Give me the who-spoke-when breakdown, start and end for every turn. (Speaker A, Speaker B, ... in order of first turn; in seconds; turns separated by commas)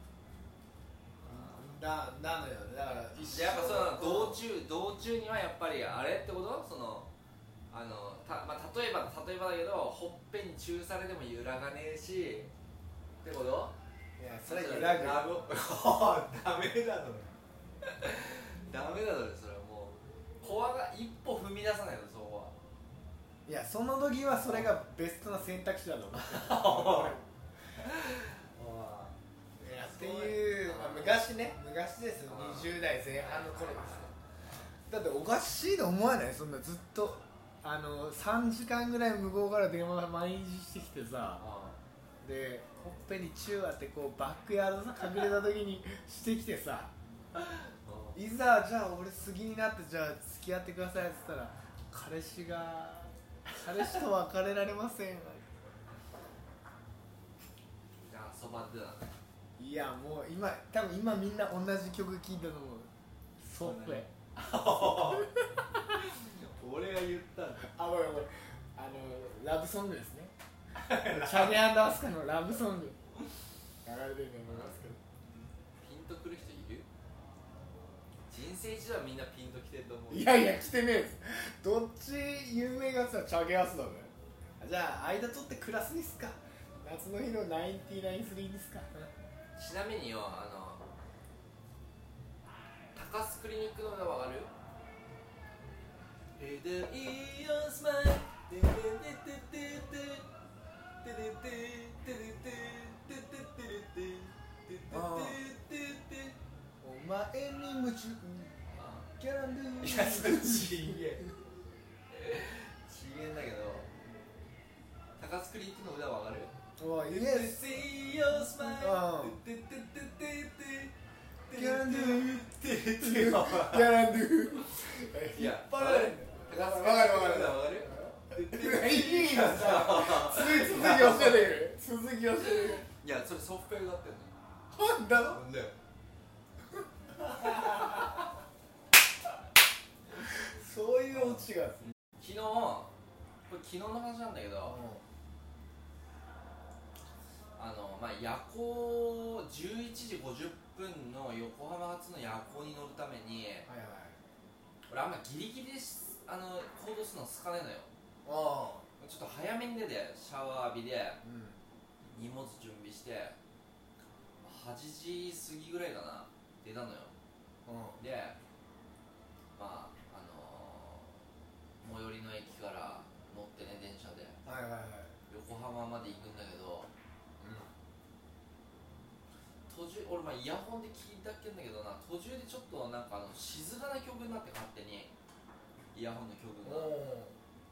Speaker A: 1.2-1.7, Speaker B: 1.2-4.4, Speaker A: 3.3-7.1, Speaker A: 7.7-12.5, Speaker A: 13.2-13.8, Speaker B: 14.2-15.2, Speaker A: 14.5-22.6, Speaker B: 23.5-27.2, Speaker A: 26.2-27.2, Speaker A: 27.8-31.2, Speaker B: 29.6-34.1, Speaker A: 32.3-34.1, Speaker B: 34.9-41.4, Speaker A: 41.4-41.8, Speaker B: 42.2-46.9, Speaker A: 47.4-48.2, Speaker B: 48.1-55.6, Speaker A: 58.0-59.2, Speaker B: 59.6-64.1, Speaker A: 63.6-67.7, Speaker B: 64.8-65.5, Speaker B: 67.6-70.3, Speaker A: 70.8-71.6, Speaker B: 71.1-73.0, Speaker B: 73.8-75.0, Speaker A: 74.5-74.8, Speaker A: 75.8-76.9, Speaker A: 78.3-80.5, Speaker B: 80.1-89.1, Speaker A: 89.5-90.8, Speaker A: 92.9-94.5, Speaker A: 96.4-100.3, Speaker A: 101.0-106.4, Speaker B: 104.9-105.4, Speaker B: 106.8-108.5, Speaker A: 108.7-109.1, Speaker B: 109.2-110.9, Speaker A: 109.8-111.2, Speaker A: 112.1-113.9, Speaker A: 115.2-116.5, Speaker B: 116.8-117.6, Speaker A: 117.1-120.9, Speaker B: 118.6-119.4, Speaker A: 121.5-124.0, Speaker B: 121.5-132.9, Speaker A: 125.3-131.7, Speaker A: 132.4-134.3, Speaker B: 134.7-135.4, Speaker A: 135.3-135.8, Speaker B: 137.2-138.1, Speaker A: 137.4-138.0, Speaker B: 140.3-141.8, Speaker A: 141.1-141.5, Speaker A: 142.2-142.9, Speaker A: 143.5-144.8, Speaker B: 144.6-145.0, Speaker A: 147.6-153.7, Speaker B: 153.7-154.2, Speaker A: 154.9-157.9, Speaker B: 158.2-158.8, Speaker A: 159.0-161.2, Speaker B: 161.2-161.6, Speaker A: 162.1-163.4, Speaker A: 164.4-167.1, Speaker B: 167.7-168.0, Speaker A: 168.0-168.4, Speaker A: 169.6-171.2, Speaker A: 171.8-174.4, Speaker B: 174.4-175.1, Speaker A: 175.3-176.9, Speaker B: 177.4-177.7, Speaker A: 179.7-185.1, Speaker A: 185.9-186.9, Speaker B: 186.6-187.3